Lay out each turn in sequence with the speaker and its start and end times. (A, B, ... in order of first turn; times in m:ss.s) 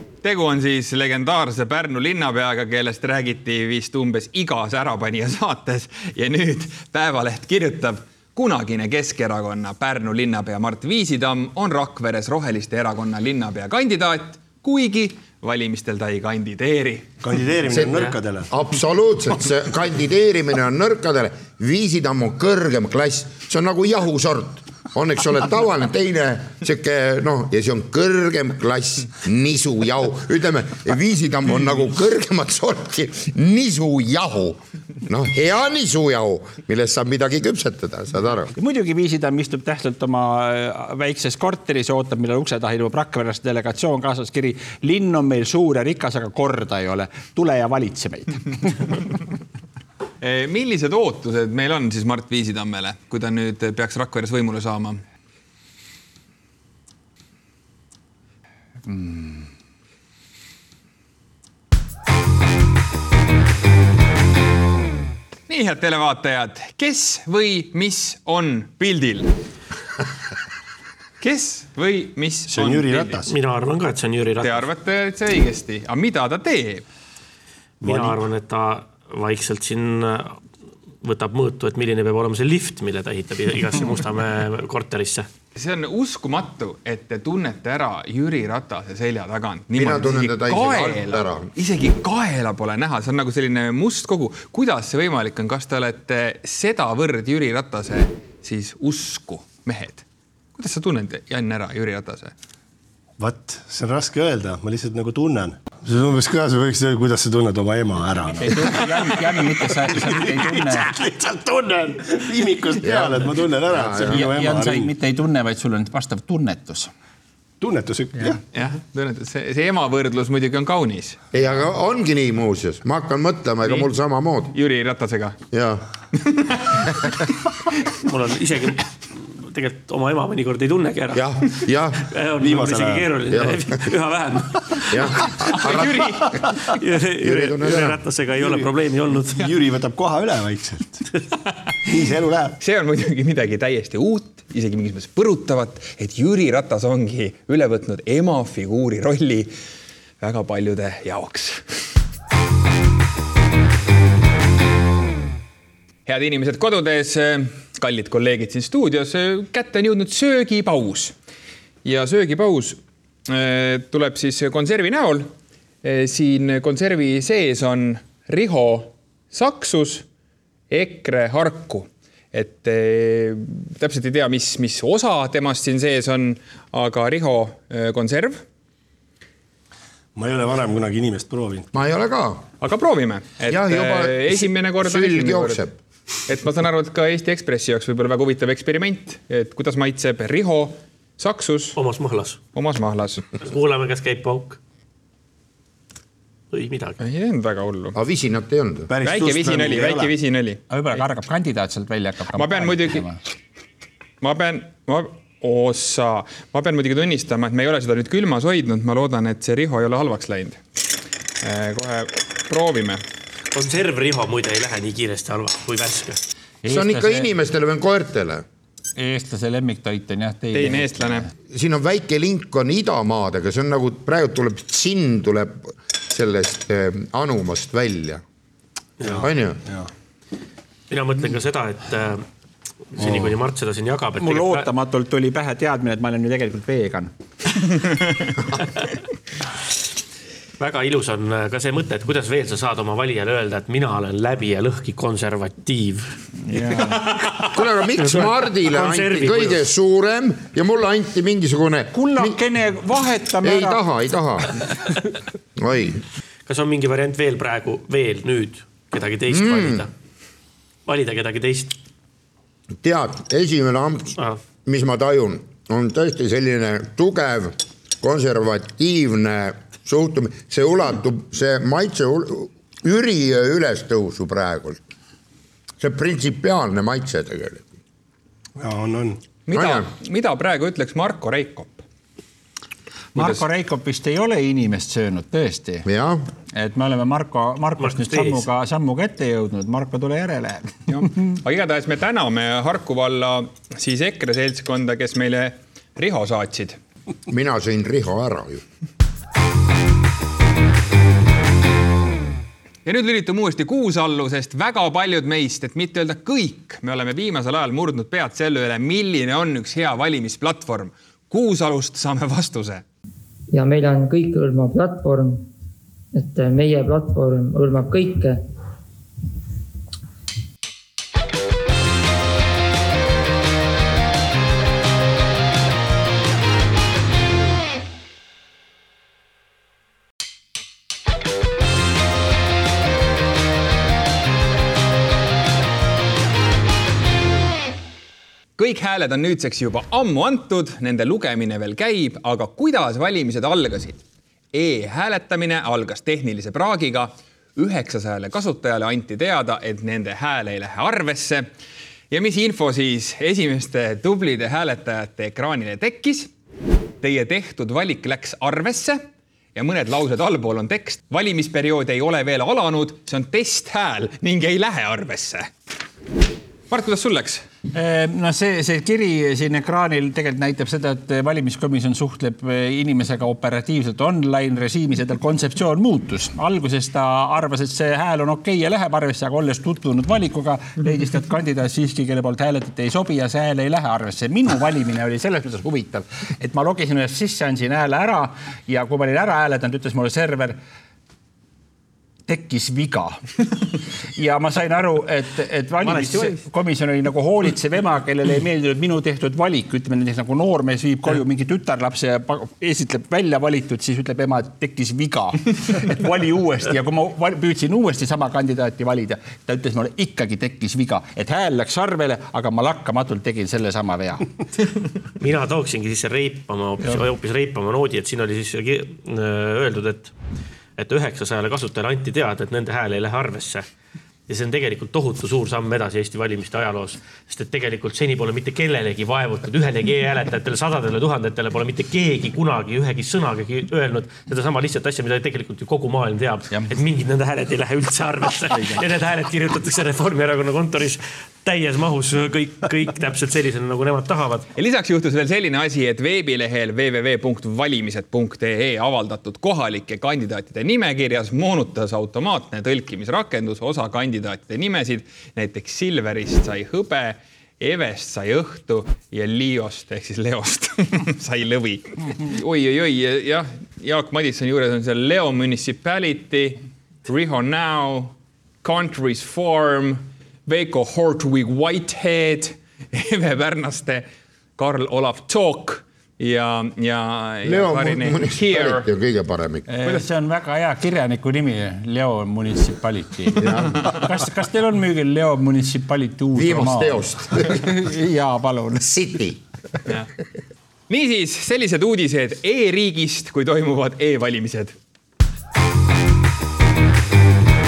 0:00.2-0:17.1 A
0:17.2-0:18.5 B
0:17.7-0:38.5 C
0:38.6-0:49.0 D
0:50.2-0:55.0 A
0:58.9-0:59.5 D
1:05.5-1:09.3 A
1:11.2-1:13.2 A
1:12.5-1:13.3 B
1:13.3-1:14.7 E
1:14.4-1:16.8 A
1:17.8-1:20.4 E
1:17.8-1:18.2 B
1:21.0-1:25.3 E
1:25.6-1:40.0 A
1:29.8-1:31.5 C
1:40.6-1:42.3 A
1:43.2-1:54.9 B
1:48.4-1:50.9 D
1:52.8-1:54.3 C
1:54.0-1:56.9 D
1:57.6-1:58.4 B
1:58.5-2:01.2 A
2:01.3-2:04.5 C
2:03.6-2:03.9 A
2:04.5-2:05.4 A
2:05.5-2:05.8 C
2:06.2-2:07.2 A
2:08.1-2:19.4 E
2:11.1-2:12.0 C
2:12.4-2:13.3 B
2:13.3-2:13.6 C
2:14.6-2:15.0 B
2:14.9-2:16.1 C
2:16.2-2:16.6 B
2:17.2-2:18.0 C
2:18.4-2:18.7 B
2:19.3-2:21.1 B
2:21.8-2:22.6 B
2:22.6-2:29.5 A
2:30.2-2:31.6 A
2:36.1-2:41.1 A
2:41.8-2:45.3 A
2:45.8-2:50.0 A
2:50.7-2:58.4 A
3:00.2-3:01.7 B
3:01.7-3:02.5 C
3:02.6-3:05.6 A
3:03.4-3:05.7 C
3:06.3-3:11.8 A
3:11.8-3:12.4 E
3:12.5-3:13.3 A
3:13.4-3:14.6 E
3:16.5-3:17.0 E
3:17.0-3:18.0 A
3:18.0-3:18.9 C
3:18.9-3:20.1 B
3:19.0-3:20.6 A
3:20.7-3:23.2 D
3:22.4-3:23.1 A
3:24.2-3:30.6 A
3:31.4-3:33.0 A
3:33.5-3:36.2 E
3:36.6-3:37.3 D
3:36.7-3:38.4 C
3:39.0-3:41.3 D
3:40.5-3:41.3 A
3:41.5-3:48.2 C
3:49.0-3:49.9 B
3:49.2-3:49.6 C
3:50.9-3:52.2 E
3:52.9-3:54.7 E
3:53.0-3:53.3 B
3:54.2-3:57.1 D
4:00.6-4:06.2 E
4:06.5-4:07.0 D
4:06.9-4:07.5 A
4:07.5-4:12.4 C
4:08.0-4:09.6 E
4:11.9-4:13.8 D
4:13.4-4:14.6 C
4:15.6-4:16.0 C
4:16.5-4:19.9 E
4:19.3-4:19.8 C
4:20.9-4:21.8 E
4:22.8-4:24.1 C
4:24.6-4:34.8 C
4:35.8-4:37.7 C
4:38.6-4:39.2 B
4:39.5-4:41.8 A
4:39.5-4:39.9 C
4:43.2-4:45.9 D
4:43.2-4:43.4 A
4:45.8-4:46.2 C
4:46.6-4:51.1 D
4:47.8-4:48.5 E
4:50.9-4:56.8 A
4:57.3-4:58.6 C
5:02.8-5:12.8 A
5:13.5-5:15.5 F
5:16.1-5:18.4 F
5:38.6-5:44.0 A
5:44.5-5:51.5 A
5:52.1-5:56.3 A
5:57.0-5:59.0 A
5:59.6-6:05.5 A
6:06.7-6:07.5 A
6:07.7-6:30.6 D
6:32.3-6:33.2 D
6:34.2-6:54.3 D
6:35.8-6:36.4 E
6:55.2-7:00.1 E
7:00.8-7:03.6 E
7:04.3-7:24.5 E
7:24.6-7:54.0 A
7:54.6-7:58.9 A
7:57.4-7:59.7 C
7:59.7-8:08.9 D
8:03.4-8:03.9 C
8:06.4-8:07.7 C
8:08.8-8:09.4 C
8:10.9-8:14.8 A